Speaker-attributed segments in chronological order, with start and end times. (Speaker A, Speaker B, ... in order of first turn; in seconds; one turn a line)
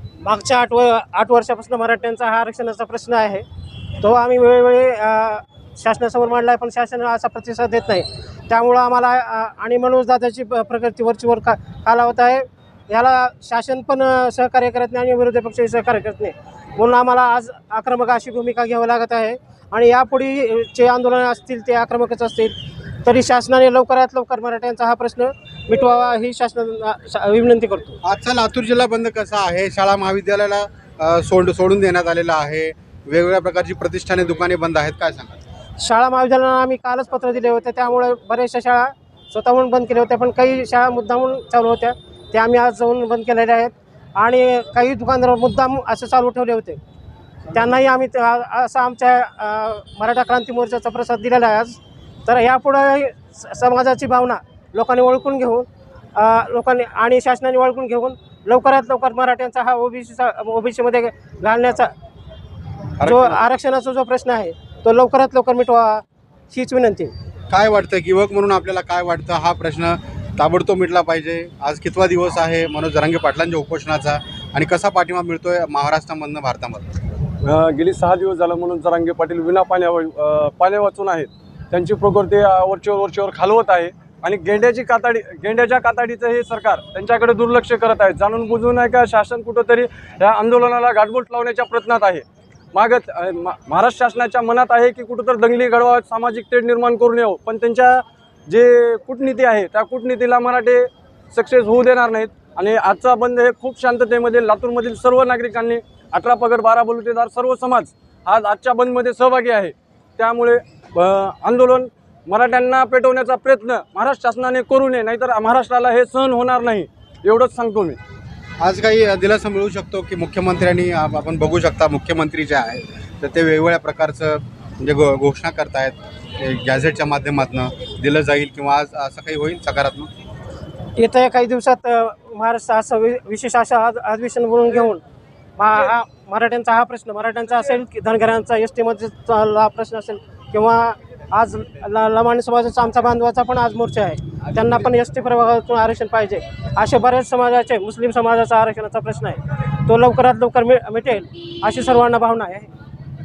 Speaker A: 0.2-3.4
Speaker A: 4.0-28.0
Speaker B: 28.0-35.4
Speaker A: 35.8-46.8
Speaker A: 47.5-61.9
Speaker B: 63.0-63.4
Speaker A: 63.0-67.1
Speaker B: 67.5-76.9
Speaker C: 77.4-118.0
Speaker B: 118.6-130.1
Speaker A: 130.9-135.0
Speaker A: 135.6-152.7